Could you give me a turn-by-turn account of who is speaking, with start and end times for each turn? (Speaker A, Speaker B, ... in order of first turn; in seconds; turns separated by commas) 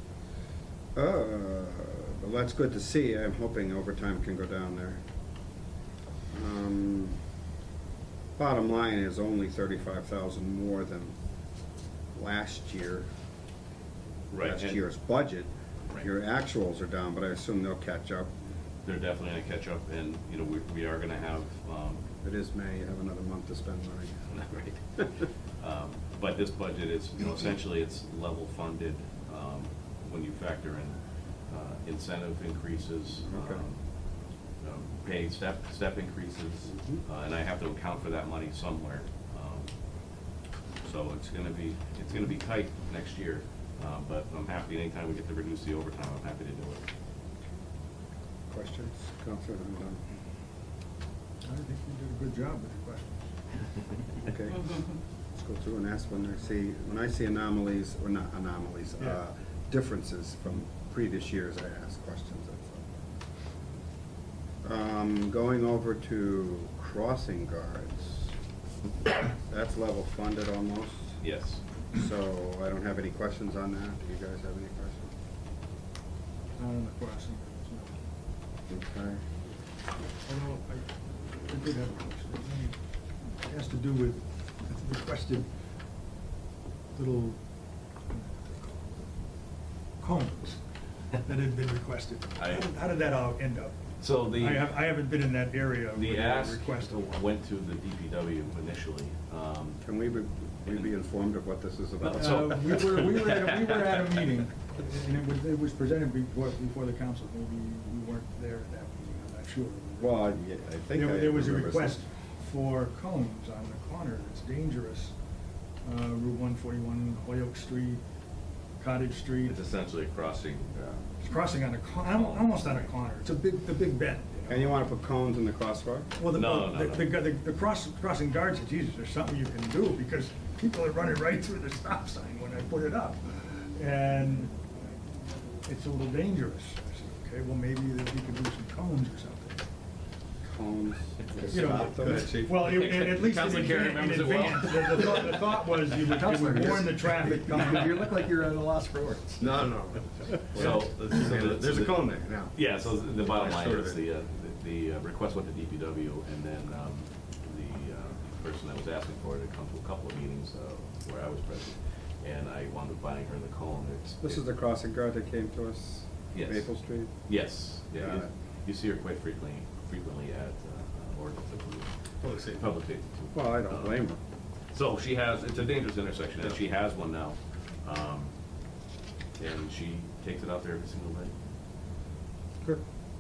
Speaker A: 0.9-5.0, Speaker A: 6.3-7.2, Speaker A: 8.4-11.2, Speaker A: 12.1-13.1, Speaker B: 14.3-14.8, Speaker A: 14.3-18.3, Speaker B: 18.9-22.1, Speaker A: 22.2-24.3, Speaker B: 24.3-25.1, Speaker B: 25.6-33.9, Speaker A: 33.3-33.6, Speaker B: 34.6-39.7, Speaker B: 40.8-46.8, Speaker A: 48.5-50.0, Speaker C: 51.4-53.3, Speaker A: 54.2-54.8, Speaker A: 55.4-62.9, Speaker A: 64.6-68.3, Speaker A: 69.5-71.2, Speaker B: 71.2-71.6, Speaker A: 71.9-75.1, Speaker C: 76.6-78.0, Speaker A: 78.7-79.2, Speaker C: 80.3-82.8, Speaker C: 83.3-85.5, Speaker C: 87.0-87.4, Speaker C: 88.1-88.9, Speaker C: 90.0-90.6, Speaker C: 91.2-97.0, Speaker B: 92.4-92.6, Speaker B: 94.0-94.7, Speaker B: 96.0-99.8, Speaker A: 99.8-102.6, Speaker B: 102.0-104.2, Speaker C: 102.2-110.3, Speaker A: 110.0-112.0, Speaker C: 110.9-115.2, Speaker C: 115.8-118.0, Speaker C: 118.8-119.6, Speaker B: 119.5-121.0, Speaker C: 121.2-124.6, Speaker B: 122.1-122.9, Speaker A: 124.5-126.1, Speaker C: 126.2-134.7, Speaker B: 126.3-127.1, Speaker C: 135.6-139.7, Speaker A: 140.4-142.4, Speaker C: 141.5-148.2, Speaker D: 141.6-142.5, Speaker B: 142.5-145.2, Speaker D: 146.1-152.5, Speaker A: 149.4-149.8, Speaker B: 150.5-164.4, Speaker A: 150.6-151.2, Speaker D: 153.4-154.0, Speaker A: 164.2-167.1, Speaker B: 166.3-166.7, Speaker B: 167.3-174.0, Speaker A: 168.0-168.3, Speaker A: 173.3-174.2, Speaker B: 174.7-178.3, Speaker B: 179.4-181.3